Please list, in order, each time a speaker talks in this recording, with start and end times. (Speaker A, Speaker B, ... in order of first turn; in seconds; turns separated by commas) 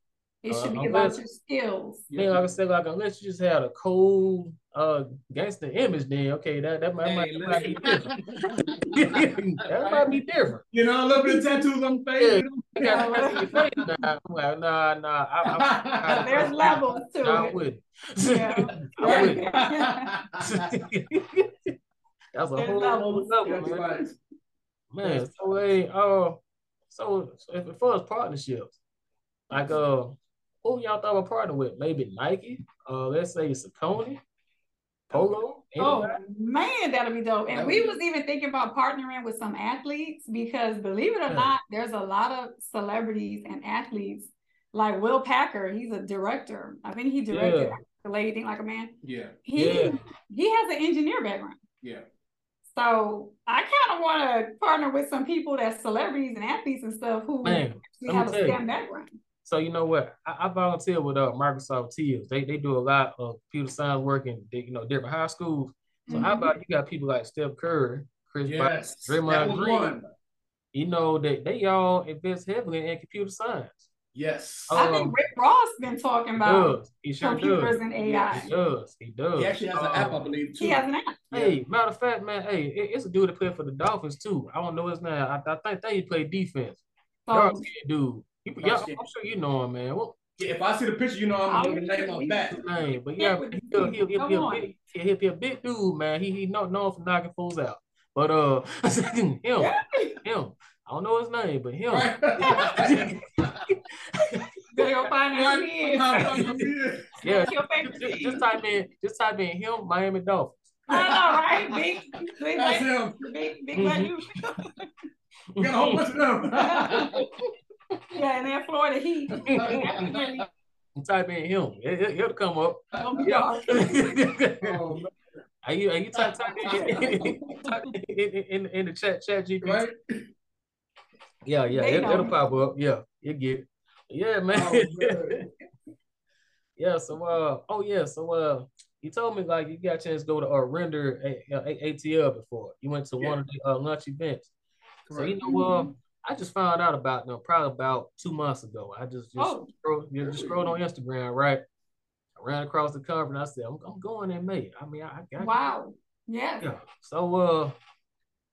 Speaker A: 0.4-2.0, Speaker B: 0.5-1.2, Speaker C: 2.1-2.4, Speaker B: 2.1-8.1, Speaker C: 7.0-10.2, Speaker B: 8.9-10.6, Speaker C: 10.7-13.6, Speaker A: 11.2-11.7, Speaker B: 12.2-19.5, Speaker A: 12.8-13.6, Speaker C: 15.6-16.8, Speaker A: 16.1-17.6, Speaker A: 18.2-20.1, Speaker C: 19.0-20.7, Speaker B: 20.4-21.7, Speaker B: 22.3-23.8, Speaker A: 22.6-23.9, Speaker C: 23.4-24.2, Speaker B: 24.9-28.8, Speaker C: 25.0-25.3, Speaker B: 29.5-34.2, Speaker C: 35.1-35.4, Speaker B: 35.1-36.2, Speaker A: 35.8-51.6, Speaker C: 37.5-38.0, Speaker B: 41.3-41.5, Speaker B: 47.3-47.8, Speaker C: 49.0-49.4, Speaker B: 49.6-50.0, Speaker A: 52.7-59.2, Speaker B: 57.4-58.6, Speaker B: 59.5-70.0, Speaker A: 66.1-66.5, Speaker C: 68.5-70.1, Speaker B: 70.7-73.9, Speaker C: 74.1-74.8, Speaker B: 74.7-75.2, Speaker A: 74.7-78.5, Speaker B: 76.4-77.8, Speaker C: 78.0-78.5, Speaker B: 78.3-80.3, Speaker C: 79.4-81.6, Speaker A: 80.6-81.2, Speaker B: 81.3-90.2, Speaker A: 87.3-87.7, Speaker C: 88.6-89.0, Speaker C: 90.4-92.6, Speaker A: 91.5-94.7, Speaker B: 92.5-104.5, Speaker A: 99.6-100.2, Speaker C: 101.9-103.7, Speaker A: 102.5-102.7, Speaker A: 104.7-106.6, Speaker C: 105.3-107.1, Speaker B: 107.2-110.8, Speaker A: 107.2-108.4, Speaker A: 110.9-114.9, Speaker C: 110.9-111.8, Speaker C: 112.5-113.3, Speaker B: 113.8-114.1, Speaker B: 115.5-116.1, Speaker C: 115.6-117.3, Speaker A: 116.6-117.1, Speaker B: 117.0-117.3, Speaker A: 118.1-120.5, Speaker B: 119.4-120.1, Speaker C: 119.4-120.2, Speaker B: 121.0-124.8, Speaker C: 123.0-123.2, Speaker A: 123.0-124.2, Speaker C: 124.6-125.1, Speaker B: 125.6-129.9, Speaker C: 126.2-127.6, Speaker C: 129.6-129.9, Speaker B: 131.4-135.4, Speaker A: 131.7-132.3, Speaker C: 134.5-135.4, Speaker B: 136.8-144.5, Speaker C: 145.1-145.4, Speaker B: 145.1-151.6, Speaker A: 145.4-145.9, Speaker A: 149.4-149.7, Speaker C: 150.2-150.6, Speaker B: 152.4-155.7, Speaker A: 155.4-156.7, Speaker B: 156.6-157.8